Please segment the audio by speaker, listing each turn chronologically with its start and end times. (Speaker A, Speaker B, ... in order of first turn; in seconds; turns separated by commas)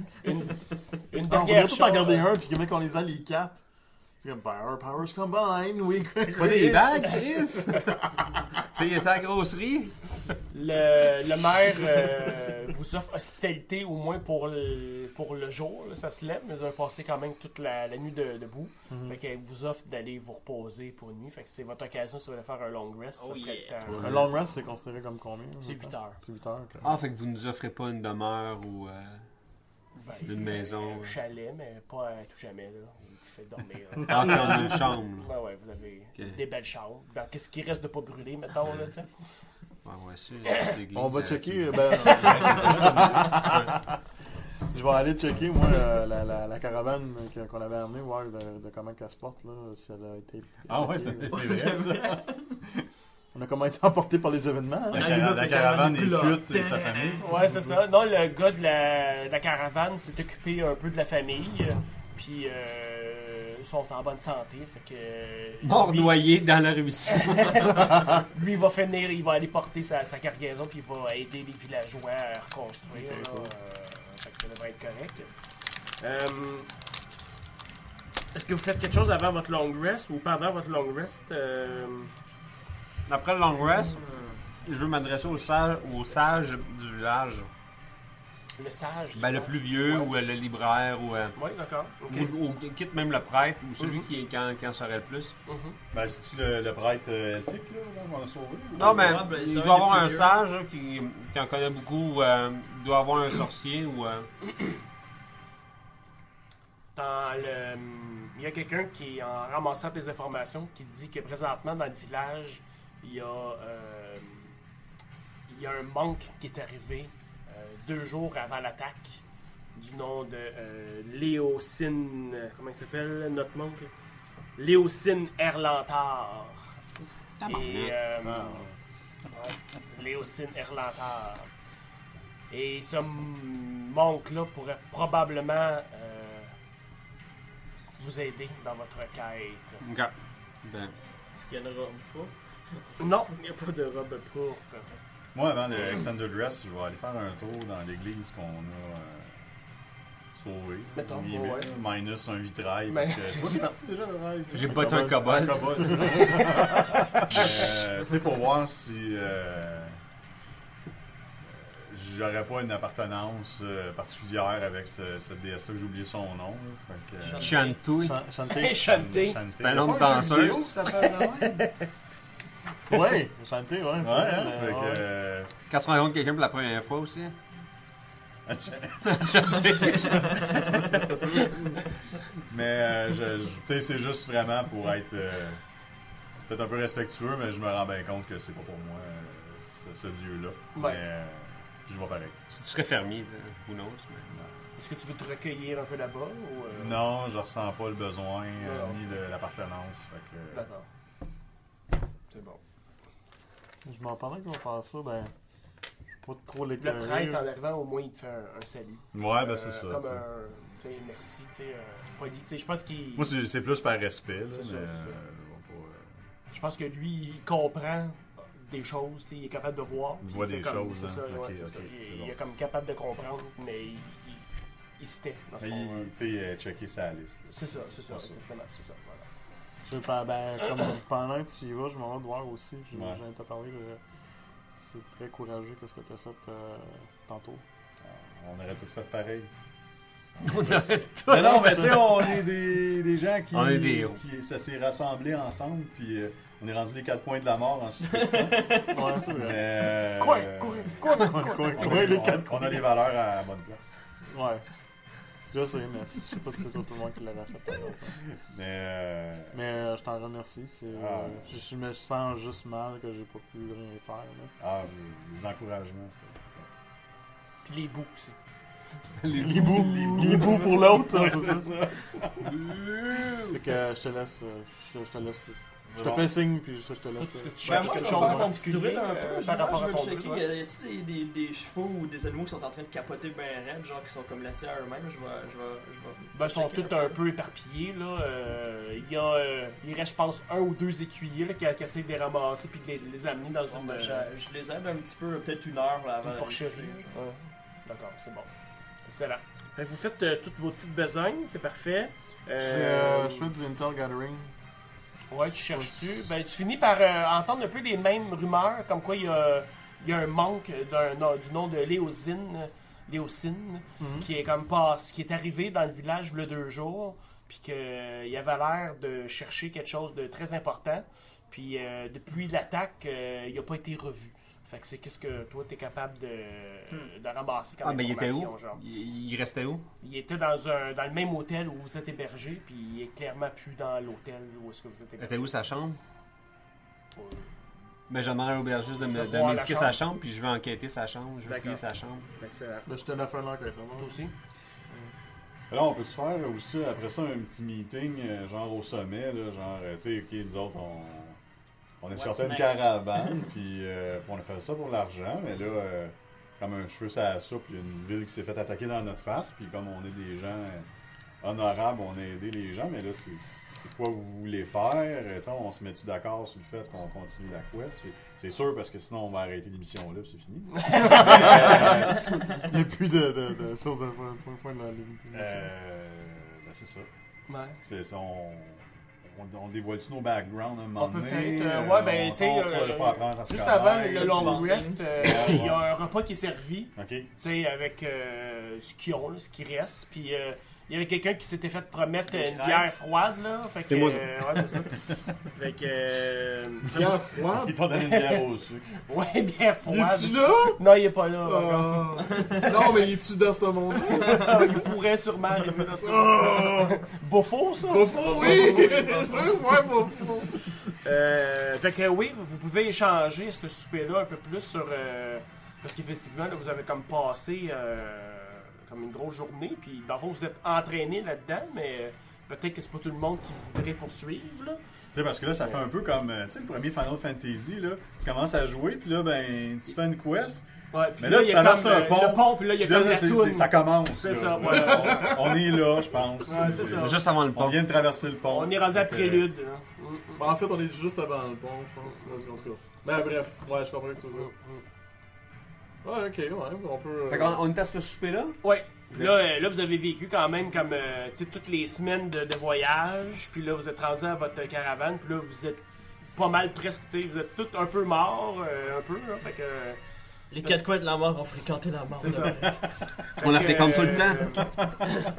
Speaker A: 0.2-2.3, Speaker B: 1.3-3.6, Speaker B: 4.2-7.9, Speaker C: 6.3-8.0, Speaker C: 8.7-9.9, Speaker A: 10.5-24.3, Speaker B: 18.9-19.2, Speaker D: 23.2-24.0, Speaker B: 23.9-26.9, Speaker A: 25.6-26.2, Speaker C: 26.8-29.2, Speaker A: 30.0-39.1, Speaker C: 30.2-31.1, Speaker C: 34.1-35.3, Speaker C: 39.8-43.7, Speaker A: 40.5-40.7, Speaker B: 40.9-44.0, Speaker E: 42.2-43.4, Speaker B: 44.7-51.6, Speaker E: 50.7-52.8, Speaker D: 51.3-52.3, Speaker B: 53.3-55.3, Speaker D: 54.9-57.4, Speaker E: 54.9-57.4, Speaker A: 57.2-66.2, Speaker C: 65.6-67.9, Speaker A: 67.1-75.3, Speaker B: 72.9-73.5, Speaker A: 76.0-76.7, Speaker A: 78.3-82.1, Speaker C: 83.1-84.0, Speaker D: 84.0-84.4, Speaker C: 84.6-87.5, Speaker A: 88.6-90.1, Speaker C: 89.1-91.3, Speaker A: 91.3-92.3, Speaker C: 92.1-95.3, Speaker A: 93.8-94.0, Speaker A: 95.5-95.8, Speaker E: 95.9-99.3, Speaker C: 98.7-104.3, Speaker D: 98.9-100.4, Speaker A: 106.9-114.5, Speaker A: 115.5-119.2, Speaker A: 119.7-123.9, Speaker A: 124.6-126.8, Speaker C: 127.4-128.0, Speaker A: 127.5-128.7, Speaker E: 128.2-128.7, Speaker A: 129.3-131.5, Speaker A: 132.5-136.5, Speaker A: 138.0-139.8, Speaker C: 139.8-140.1, Speaker C: 140.6-140.9, Speaker D: 141.3-142.8, Speaker A: 143.0-144.9, Speaker E: 145.3-149.4, Speaker E: 150.3-160.0, Speaker A: 150.9-151.7, Speaker A: 152.9-153.7, Speaker C: 154.5-156.3, Speaker B: 154.7-157.3, Speaker E: 161.4-167.6, Speaker D: 167.2-167.8, Speaker C: 167.4-168.2, Speaker B: 168.0-168.9, Speaker A: 168.5-169.4, Speaker E: 168.8-171.7, Speaker C: 169.6-170.8, Speaker A: 171.1-171.8, Speaker B: 172.9-175.0, Speaker E: 174.0-175.5, Speaker C: 175.7-177.3, Speaker E: 178.5-181.5, Speaker C: 179.0-181.5, Speaker E: 182.4-185.6, Speaker E: 186.5-192.4, Speaker A: 190.7-191.0, Speaker C: 192.5-194.3, Speaker A: 194.8-197.0, Speaker E: 196.8-200.7, Speaker A: 198.6-199.2, Speaker A: 200.5-200.8, Speaker A: 202.3-202.6, Speaker B: 203.8-205.3, Speaker B: 206.2-207.4, Speaker A: 206.8-213.3, Speaker E: 209.1-210.2, Speaker E: 213.2-216.2, Speaker A: 214.5-215.2, Speaker A: 216.5-224.4, Speaker E: 220.2-222.3, Speaker A: 225.0-226.1, Speaker E: 225.6-228.4, Speaker A: 227.5-229.3, Speaker B: 229.8-234.0, Speaker E: 232.9-233.2, Speaker B: 234.7-237.6, Speaker E: 238.0-239.5, Speaker E: 240.4-251.1, Speaker C: 240.4-241.8, Speaker B: 241.4-241.9, Speaker C: 243.5-244.2, Speaker D: 248.0-249.1, Speaker B: 248.8-249.6, Speaker A: 250.2-252.0, Speaker B: 251.0-252.8, Speaker E: 251.7-253.9, Speaker B: 254.3-254.7, Speaker B: 255.5-258.2, Speaker E: 258.4-259.6, Speaker B: 259.5-264.5, Speaker E: 260.9-261.5, Speaker E: 264.6-266.7, Speaker A: 267.6-268.4, Speaker C: 269.2-271.3, Speaker B: 269.3-271.8, Speaker E: 271.1-272.5, Speaker C: 272.4-273.6, Speaker B: 273.5-278.5, Speaker E: 275.9-276.3, Speaker A: 277.2-280.4, Speaker D: 277.6-287.1, Speaker A: 286.3-294.3, Speaker D: 293.7-297.2, Speaker A: 296.2-298.5, Speaker A: 299.0-303.5, Speaker B: 302.6-304.5, Speaker A: 305.3-328.8, Speaker B: 305.7-306.2, Speaker B: 314.0-314.3, Speaker C: 327.8-329.9, Speaker A: 330.0-335.5, Speaker C: 335.2-336.0, Speaker A: 337.2-337.5, Speaker C: 338.1-342.3, Speaker A: 339.1-340.0, Speaker A: 341.4-341.8, Speaker A: 342.4-342.9, Speaker B: 342.9-344.1, Speaker A: 344.0-344.3, Speaker E: 345.7-351.4, Speaker E: 352.0-360.9, Speaker D: 352.1-353.3, Speaker E: 361.4-372.5, Speaker A: 370.8-371.9, Speaker B: 370.9-375.7, Speaker E: 375.3-377.1, Speaker A: 377.5-377.8, Speaker E: 377.8-385.8, Speaker A: 380.9-397.1, Speaker D: 384.1-385.7, Speaker E: 386.9-387.3, Speaker D: 392.3-392.9, Speaker C: 393.9-394.8, Speaker B: 396.9-397.8, Speaker E: 396.9-398.9, Speaker A: 397.9-398.4, Speaker A: 399.0-402.3, Speaker B: 399.9-400.8, Speaker B: 401.4-404.9, Speaker A: 404.0-409.6, Speaker B: 406.0-407.0, Speaker B: 407.8-410.8, Speaker A: 410.9-424.8, Speaker E: 425.1-430.6, Speaker A: 430.9-435.4, Speaker E: 431.2-439.5, Speaker B: 434.6-435.8, Speaker A: 436.4-437.2, Speaker B: 436.5-436.9, Speaker C: 436.9-437.8, Speaker A: 438.5-440.5, Speaker B: 440.4-444.5, Speaker A: 444.4-444.8, Speaker B: 446.0-447.6, Speaker C: 447.3-448.6, Speaker A: 448.6-460.0, Speaker C: 449.1-449.4, Speaker D: 460.5-462.8, Speaker A: 462.2-462.7, Speaker A: 463.4-464.7, Speaker C: 463.4-464.6